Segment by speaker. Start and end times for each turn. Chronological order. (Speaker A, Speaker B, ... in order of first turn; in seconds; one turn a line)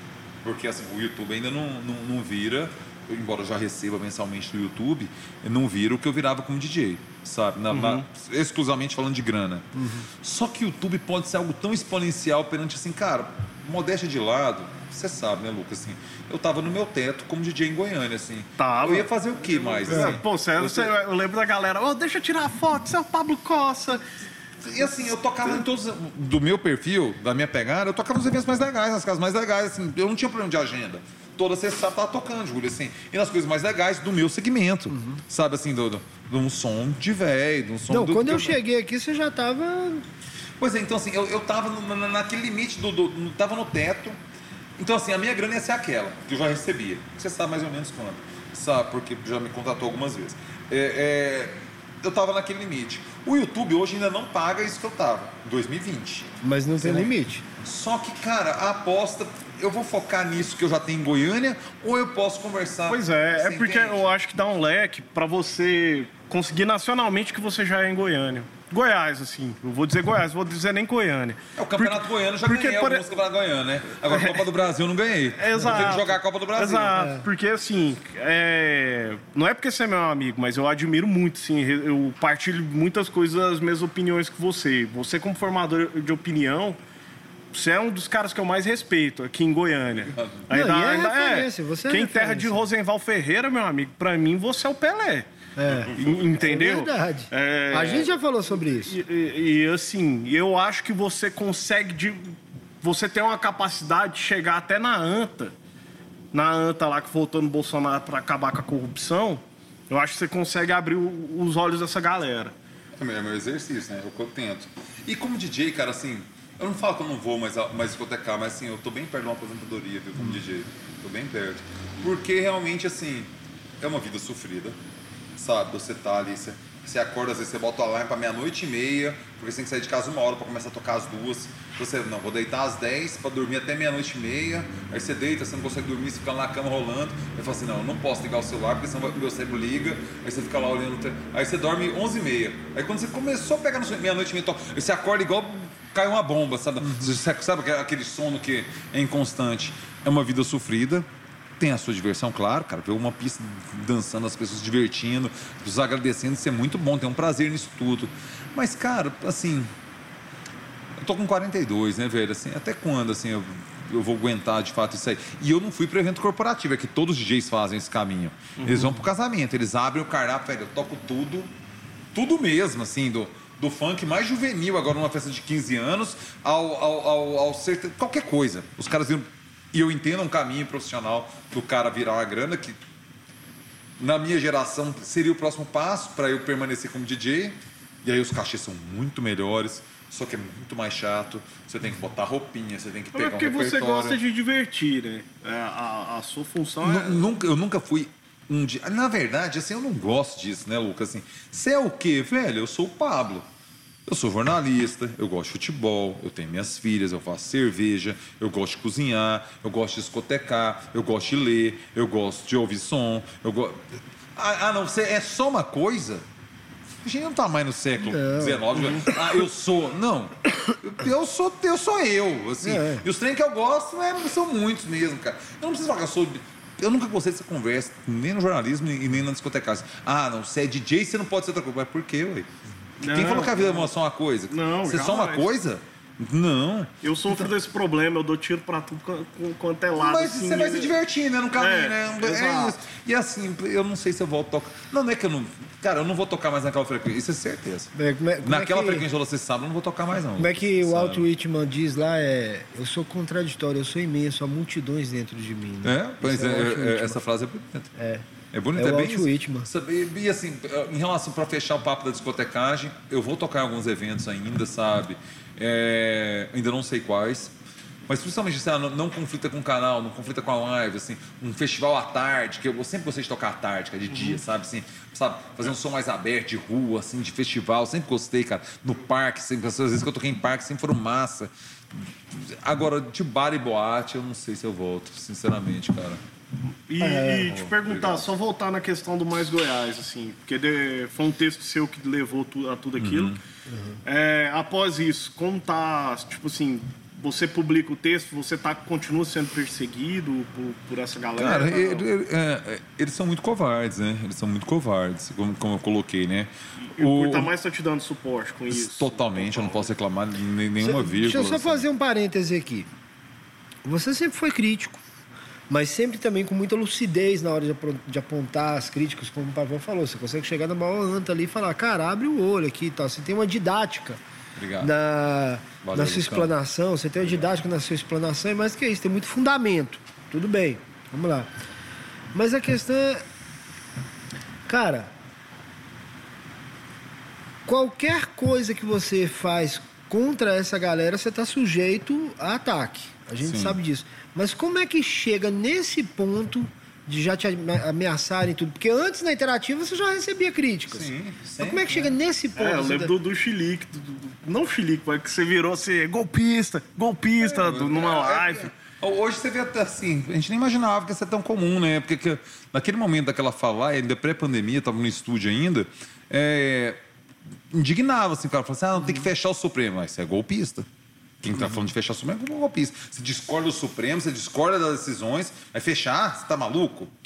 Speaker A: 0.4-20.9
Speaker B: 7.7-8.0
Speaker C: 9.7-10.1
Speaker B: 18.6-24.0
Speaker C: 19.9-20.2
Speaker A: 24.6-38.6
Speaker C: 34.9-35.2
Speaker C: 37.9-40.0
Speaker A: 40.6-44.1
Speaker A: 44.8-64.1
Speaker C: 56.4-57.4
Speaker B: 62.9-73.1
Speaker A: 71.6-77.0
Speaker B: 74.1-74.4
Speaker B: 75.4-86.8
Speaker C: 76.9-77.2
Speaker B: 87.5-95.3
Speaker A: 90.1-90.4
Speaker C: 90.5-92.6
Speaker C: 95.6-98.9
Speaker A: 95.7-96.3
Speaker B: 95.9-105.5
Speaker B: 106.3-112.5
Speaker A: 113.0-124.8
Speaker A: 125.3-151.1
Speaker A: 151.6-159.7
Speaker A: 161.0-171.5
Speaker B: 168.6-169.0
Speaker A: 172.1-182.8
Speaker A: 184.0-194.2
Speaker B: 193.1-197.3
Speaker A: 196.8-203.4
Speaker A: 204.1-213.8
Speaker A: 214.3-216.2
Speaker A: 217.0-232.5
Speaker C: 218.0-219.2
Speaker C: 222.6-223.0
Speaker B: 233.0-233.9
Speaker A: 233.0-237.5
Speaker B: 234.5-235.5
Speaker B: 237.0-240.9
Speaker A: 240.0-251.2
Speaker B: 241.6-242.8
Speaker C: 247.9-249.1
Speaker C: 250.3-257.2
Speaker A: 255.8-257.9
Speaker C: 257.9-258.2
Speaker A: 258.5-267.5
Speaker C: 258.8-259.7
Speaker A: 268.1-286.2
Speaker B: 286.9-293.4
Speaker C: 287.0-287.6
Speaker A: 287.5-288.3
Speaker A: 293.0-293.4
Speaker C: 293.7-294.0
Speaker B: 294.0-302.1
Speaker A: 301.4-307.5
Speaker B: 306.9-309.9
Speaker A: 308.7-311.8
Speaker C: 310.8-312.9
Speaker C: 313.8-315.0
Speaker C: 315.7-324.2
Speaker A: 324.6-324.9
Speaker C: 324.8-331.5
Speaker A: 325.8-326.5
Speaker C: 332.3-333.2
Speaker C: 334.7-335.1
Speaker C: 337.6-353.1
Speaker A: 343.4-343.8
Speaker A: 350.9-352.1
Speaker B: 352.6-358.7
Speaker A: 357.4-367.0
Speaker A: 367.7-370.9
Speaker A: 371.4-377.1